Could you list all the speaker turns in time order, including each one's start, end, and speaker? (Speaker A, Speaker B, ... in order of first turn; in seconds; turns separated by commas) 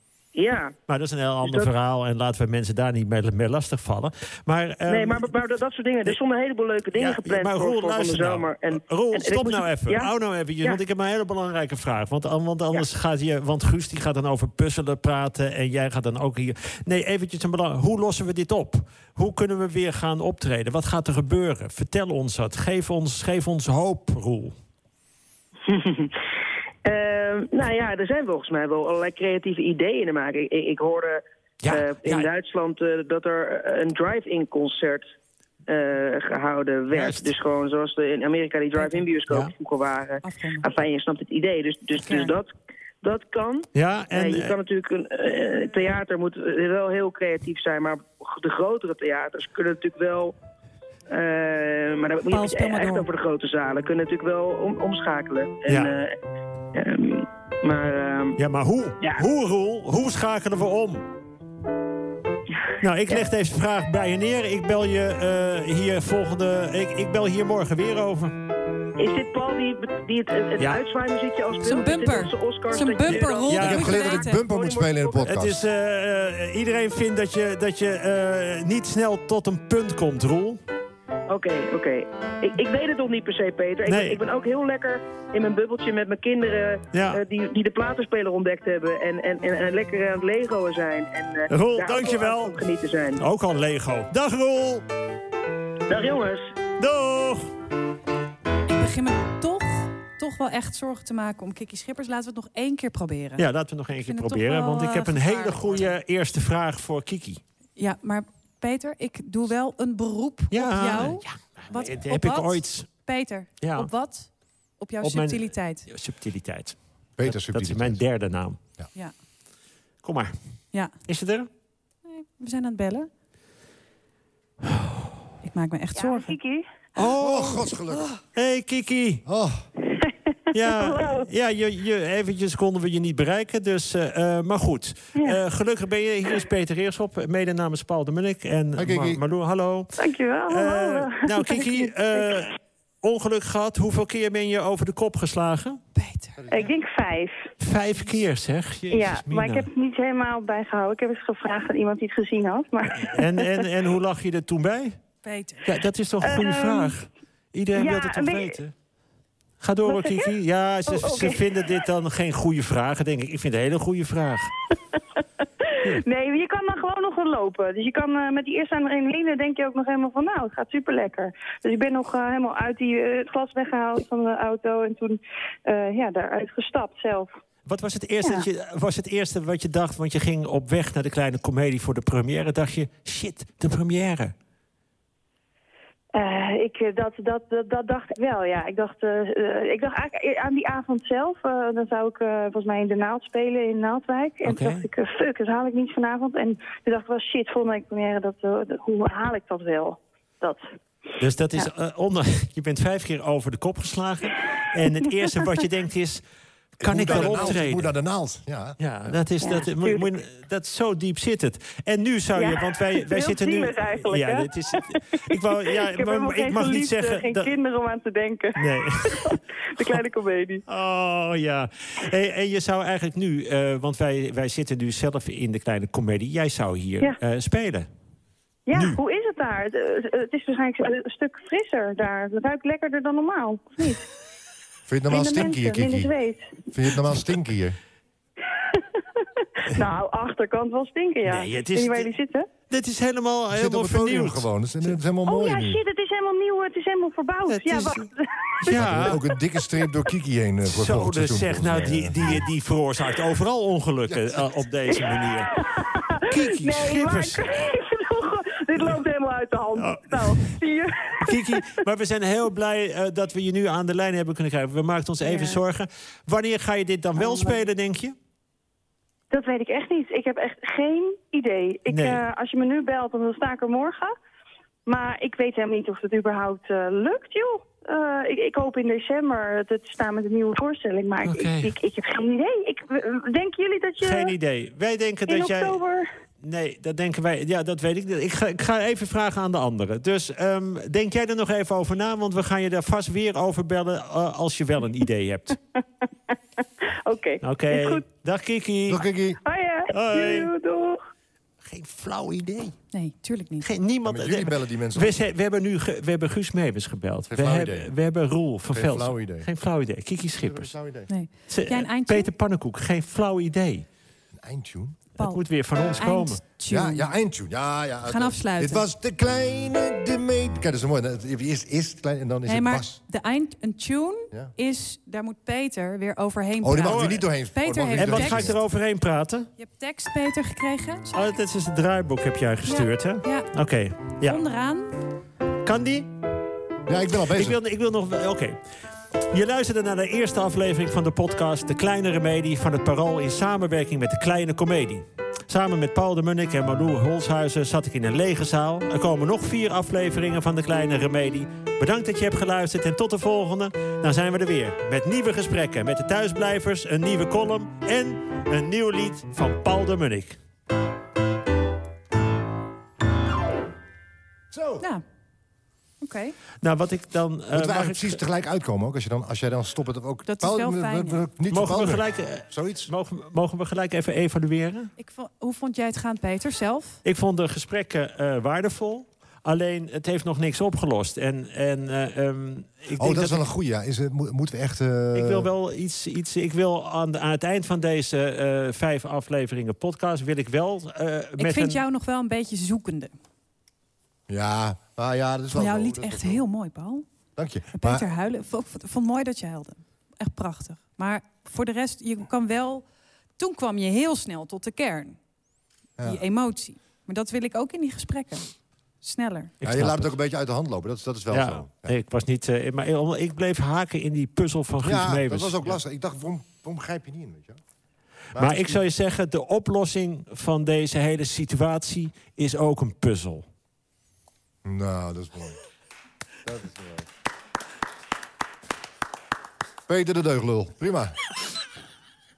Speaker A: 0.3-0.7, Speaker B: 0.9-5.3, Speaker A: 1.4-1.7, Speaker A: 4.9-10.1, Speaker B: 7.0-24.5, Speaker A: 25.7-26.2, Speaker A: 26.8-35.1, Speaker B: 31.6-32.3, Speaker A: 35.7-50.3, Speaker B: 36.9-37.3, Speaker C: 38.8-39.0, Speaker C: 40.2-40.6, Speaker C: 42.0-42.3, Speaker B: 43.7-44.5, Speaker A: 51.1-56.1, Speaker C: 52.3-53.1, Speaker B: 55.7-55.9, Speaker A: 56.7-58.4, Speaker B: 58.4-61.0, Speaker B: 62.8-68.3, Speaker A: 69.0-75.2, Speaker C: 71.6-74.4, Speaker B: 73.5-73.8, Speaker D: 73.5-75.6, Speaker B: 75.2-80.6, Speaker A: 81.3-93.2, Speaker B: 83.9-84.2, Speaker B: 86.9-87.2, Speaker B: 91.5-92.6, Speaker B: 93.2-94.8, Speaker A: 95.9-96.5, Speaker B: 96.8-97.5, Speaker C: 98.7-103.4, Speaker B: 103.4-107.4, Speaker C: 104.1-105.9, Speaker C: 107.8-115.9, Speaker B: 110.5-112.9, Speaker B: 113.6-113.9, Speaker B: 115.0-118.6, Speaker D: 117.2-118.0, Speaker B: 120.0-120.3, Speaker B: 121.0-121.5, Speaker C: 122.1-123.1, Speaker B: 124.6-124.9, Speaker C: 125.4-126.3, Speaker E: 125.9-126.7, Speaker B: 127.0-127.7, Speaker D: 127.2-128.1, Speaker B: 128.3-129.2, Speaker D: 129.2-129.6, Speaker B: 130.5-145.8, Speaker E: 130.6-131.3, Speaker D: 138.8-139.2, Speaker E: 140.0-142.5, Speaker C: 145.9-146.4, Speaker D: 146.4-146.7, Speaker E: 146.5-147.5, Speaker B: 147.6-149.7, Speaker E: 148.9-153.7, Speaker B: 153.0-155.0, Speaker C: 155.2-155.7, Speaker B: 155.7-158.7, Speaker E: 156.2-156.9, Speaker E: 157.8-158.6, Speaker B: 159.6-164.5, Speaker E: 159.8-160.3, Speaker E: 160.8-161.7, Speaker E: 165.8-177.3, Speaker B: 177.7-184.3, Speaker E: 186.1-200.7, Speaker B: 194.4-194.8, Speaker B: 201.2-206.2, Speaker B: 206.8-207.9, Speaker D: 206.8-209.2, Speaker B: 208.8-217.5, Speaker E: 209.4-210.1, Speaker E: 212.3-220.6, Speaker B: 218.6-220.0, Speaker B: 220.7-227.9, Speaker E: 228.7-234.1, Speaker B: 228.7-229.0, Speaker D: 234.9-236.1, Speaker E: 235.1-236.7, Speaker D: 236.7-237.8, Speaker E: 238.7-242.5, Speaker B: 241.2-242.1, Speaker B: 242.7-244.9, Speaker D: 243.5-245.8, Speaker E: 245.2-249.3, Speaker B: 247.5-248.1, Speaker B: 248.6-249.2, Speaker D: 248.7-252.4, Speaker B: 250.7-255.5, Speaker D: 254.1-254.4, Speaker E: 254.9-261.8, Speaker B: 256.3-257.4, Speaker B: 259.7-260.6, Speaker B: 261.2-268.1, Speaker E: 265.2-265.6, Speaker E: 267.1-267.6, Speaker E: 269.3-274.1, Speaker B: 271.9-272.2, Speaker E: 274.9-284.3, Speaker B: 281.2-281.7, Speaker B: 284.0-285.8, Speaker E: 285.3-286.1, Speaker B: 286.4-295.6, Speaker E: 297.0-298.0, Speaker B: 297.4-299.0, Speaker D: 298.9-299.4, Speaker E: 299.4-301.0, Speaker B: 299.9-300.5, Speaker B: 301.6-302.8, Speaker C: 302.9-303.6, Speaker B: 303.6-310.7, Speaker D: 304.0-305.2, Speaker D: 307.3-307.9, Speaker D: 308.7-309.5, Speaker D: 310.4-311.1, Speaker C: 311.1-312.3, Speaker B: 311.5-313.9, Speaker D: 314.3-315.0, Speaker B: 315.1-316.4, Speaker C: 315.2-315.4, Speaker C: 316.0-317.1, Speaker D: 316.7-323.0, Speaker C: 318.1-318.8, Speaker C: 322.4-328.5, Speaker D: 326.6-328.6, Speaker B: 326.8-327.2, Speaker B: 327.9-329.5, Speaker C: 329.6-331.2, Speaker B: 331.1-334.4, Speaker C: 332.7-333.5, Speaker C: 334.2-334.9, Speaker B: 335.6-336.1, Speaker D: 336.9-337.6, Speaker B: 337.3-338.6, Speaker B: 339.3-360.4, Speaker D: 364.5-364.8, Speaker C: 366.0-366.4, Speaker B: 366.6-368.2, Speaker D: 367.5-372.9, Speaker C: 370.2-371.2, Speaker B: 371.5-374.9, Speaker C: 375.0-377.0, Speaker B: 377.0-383.4, Speaker D: 383.0-385.5, Speaker B: 385.1-391.8, Speaker C: 391.4-393.1, Speaker D: 394.3-396.4, Speaker C: 395.5-397.0, Speaker D: 397.4-398.1, Speaker C: 397.7-402.8, Speaker C: 403.4-405.2, Speaker C: 406.0-408.5, Speaker C: 409.0-409.5, Speaker B: 409.6-410.1, Speaker D: 409.6-411.9, Speaker B: 411.3-415.8, Speaker D: 414.8-417.6, Speaker D: 418.3-418.8, Speaker B: 418.4-423.5, Speaker D: 424.6-425.6, Speaker D: 426.4-427.1, Speaker D: 429.9-431.1